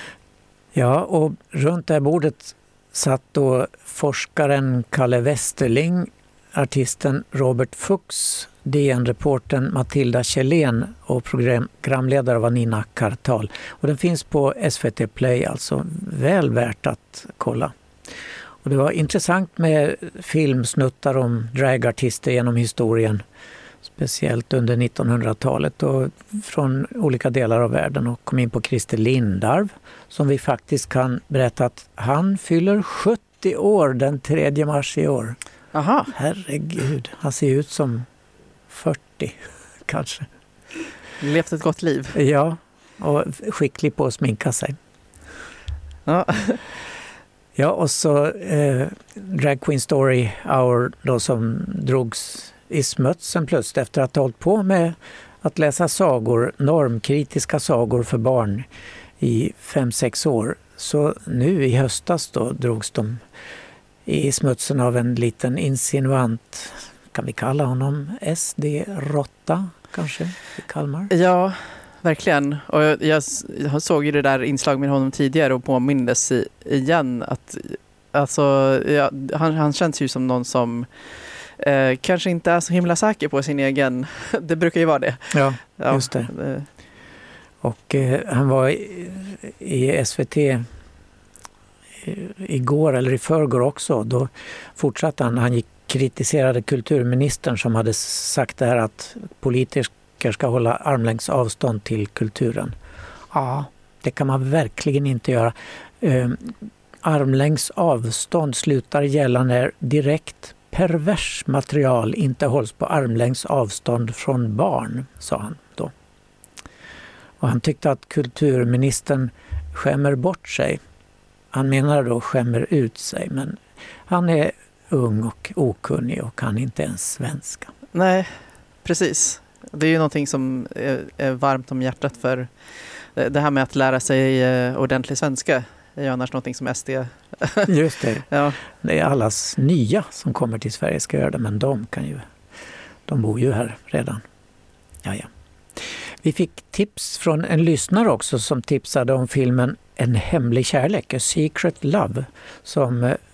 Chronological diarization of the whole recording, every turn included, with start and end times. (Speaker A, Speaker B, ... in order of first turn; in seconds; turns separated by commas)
Speaker A: 0.7-17.7, Speaker A: 18.6-23.2, Speaker A: 23.9-35.4, Speaker B: 35.7-36.1, Speaker A: 36.1-38.1, Speaker A: 38.7-40.3, Speaker B: 41.2-42.2, Speaker A: 42.1-44.8, Speaker B: 46.1-46.6, Speaker A: 47.6-58.7, Speaker A: 59.2-63.2, Speaker A: 64.1-71.1, Speaker B: 71.1-80.9, Speaker B: 81.6-86.7, Speaker A: 85.3-86.3, Speaker A: 87.6-90.7, Speaker A: 92.0-102.8, Speaker A: 103.3-115.9, Speaker A: 117.4-120.8, Speaker A: 121.5-127.7, Speaker B: 127.9-128.3, Speaker B: 128.8-132.5, Speaker B: 133.2-137.7, Speaker A: 137.7-138.3, Speaker B: 138.3-138.6, Speaker A: 138.8-142.3, Speaker A: 143.1-144.2, Speaker A: 145.0-153.2